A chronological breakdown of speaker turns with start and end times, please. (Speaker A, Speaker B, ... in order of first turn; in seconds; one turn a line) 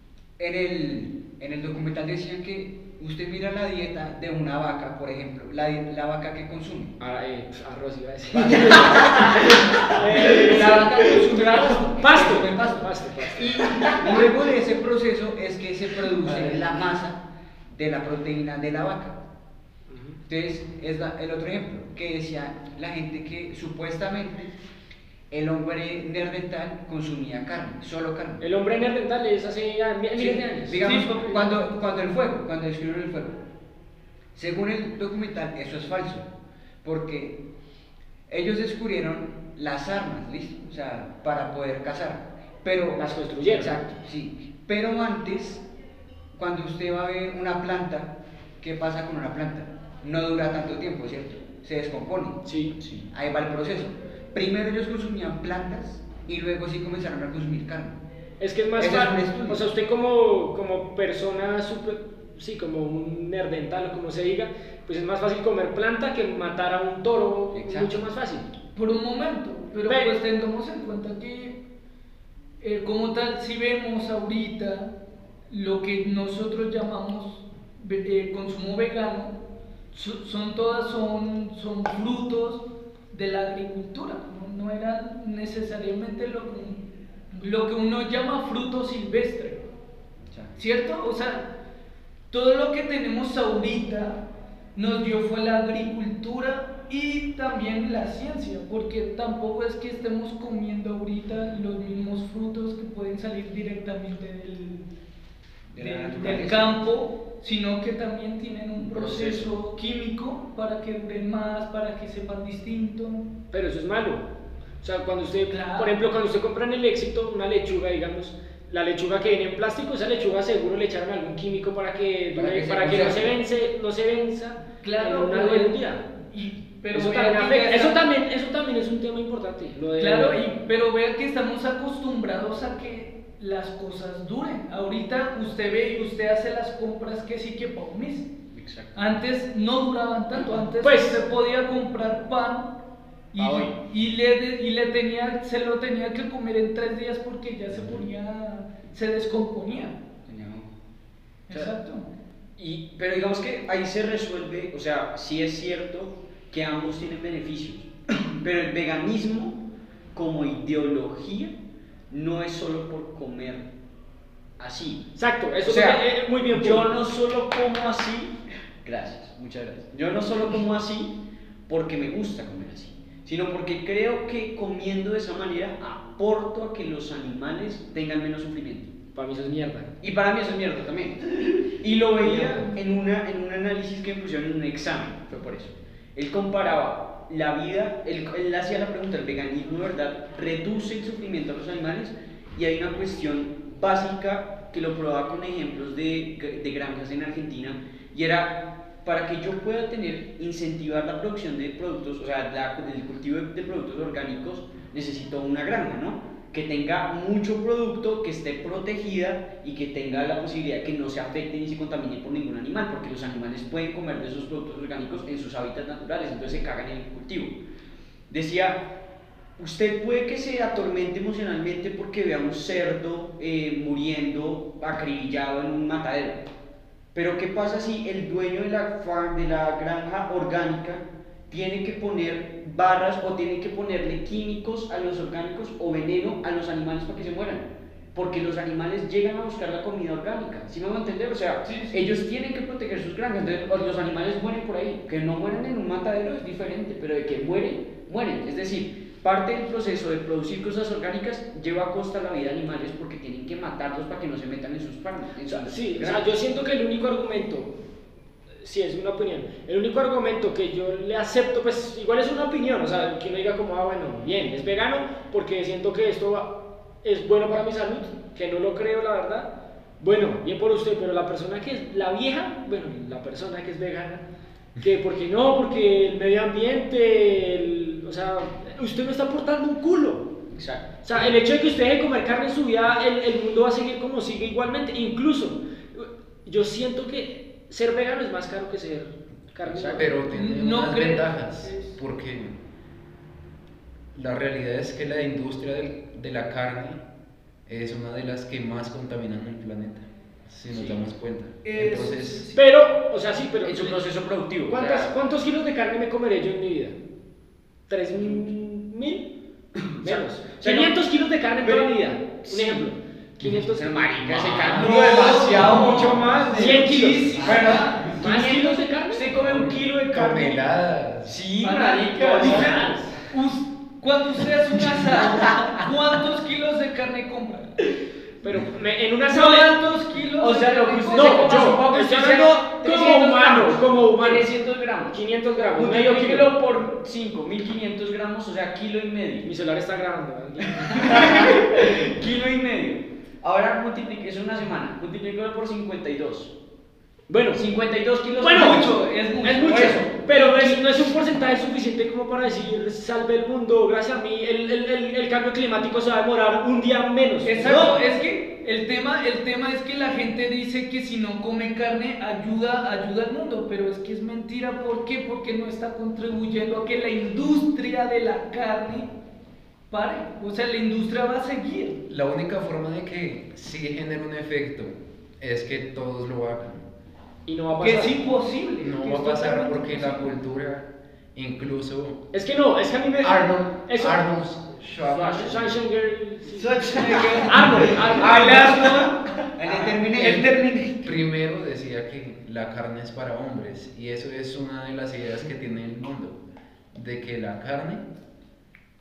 Speaker A: 0.4-6.9
Speaker B: 7.0-14.3
Speaker A: 8.4-17.2
Speaker C: 8.9-11.8
Speaker A: 17.7-19.2
Speaker B: 19.9-20.2
Speaker A: 20.3-24.5
Speaker A: 25.3-28.4
Speaker B: 28.4-30.9
Speaker A: 30.2-33.4
Speaker D: 30.8-31.6
Speaker A: 34.4-36.3
Speaker A: 36.8-37.4
Speaker A: 38.3-45.6
Speaker B: 43.0-43.9
Speaker A: 46.4-52.4
Speaker B: 52.5-52.8
Speaker C: 52.8-53.1
Speaker A: 53.1-58.0
Speaker B: 58.4-68.5
Speaker A: 58.8-59.6
Speaker A: 67.5-68.0
Speaker D: 68.8-71.6
Speaker D: 72.6-74.9
Speaker D: 75.5-79.4
Speaker D: 79.9-89.7
Speaker D: 90.6-91.5
Speaker D: 92.3-94.2
Speaker D: 94.8-104.8
Speaker C: 105.7-106.7
Speaker D: 105.8-113.3
Speaker A: 106.0-106.5
Speaker C: 108.8-109.5
Speaker B: 113.5-114.2
Speaker B: 114.8-126.0
Speaker D: 115.5-115.9
Speaker A: 122.3-123.3
Speaker D: 124.8-128.0
Speaker B: 126.9-130.5
Speaker D: 130.0-138.3
Speaker C: 138.5-139.2
Speaker D: 138.9-142.7
Speaker B: 140.8-141.2
Speaker D: 143.3-150.0
Speaker C: 143.4-143.8
Speaker C: 147.8-148.0
Speaker C: 150.3-150.7
Speaker D: 151.5-152.1
Speaker C: 152.6-159.6
Speaker C: 160.1-161.5
Speaker C: 162.1-163.7
Speaker C: 164.6-165.1
Speaker B: 165.2-166.9
Speaker C: 165.7-178.9
Speaker B: 179.2-179.9
Speaker C: 180.0-217.6
Speaker B: 182.2-182.7
Speaker C: 218.3-218.8
Speaker C: 219.6-226.4
Speaker C: 227.1-256.4
Speaker D: 241.7-242.0
Speaker B: 255.5-257.7
Speaker B: 258.6-274.2
Speaker B: 274.8-280.3
Speaker C: 280.5-280.9
Speaker B: 281.0-290.1
Speaker C: 289.6-290.2
Speaker E: 289.9-292.6
Speaker D: 290.3-292.0
Speaker E: 294.1-297.0
Speaker E: 297.7-302.5
Speaker C: 300.7-301.0
Speaker D: 301.6-302.6
Speaker B: 302.6-304.1
Speaker C: 303.6-305.1
Speaker B: 304.7-307.0
Speaker B: 307.9-309.3
Speaker C: 308.1-308.4
Speaker C: 309.8-311.0
Speaker B: 310.0-319.3
Speaker C: 311.6-312.9
Speaker C: 313.4-320.4
Speaker D: 314.7-318.1
Speaker E: 319.4-321.4
Speaker B: 320.1-320.6
Speaker C: 321.2-323.0
Speaker D: 321.6-327.7
Speaker B: 322.2-323.1
Speaker B: 328.4-329.8
Speaker D: 329.3-331.9
Speaker C: 330.4-335.2
Speaker B: 331.1-334.5
Speaker D: 332.8-333.6
Speaker B: 335.1-336.5
Speaker C: 335.8-339.5
Speaker B: 339.4-341.6
Speaker C: 340.8-346.5
Speaker B: 347.3-347.6
Speaker C: 347.5-348.9
Speaker B: 348.4-348.9
Speaker D: 348.5-351.1
Speaker B: 349.4-358.0
Speaker C: 349.6-350.1
Speaker D: 357.4-369.1
Speaker D: 369.9-372.0
Speaker E: 372.1-376.9
Speaker B: 377.5-378.2
Speaker D: 377.8-380.3
Speaker E: 378.8-382.2
Speaker B: 382.3-384.3
Speaker E: 383.2-385.8
Speaker B: 385.1-389.1
Speaker D: 386.6-389.2
Speaker C: 386.7-389.9
Speaker A: 389.6-391.1
Speaker E: 390.2-396.4
Speaker D: 390.2-390.6
Speaker E: 396.9-398.0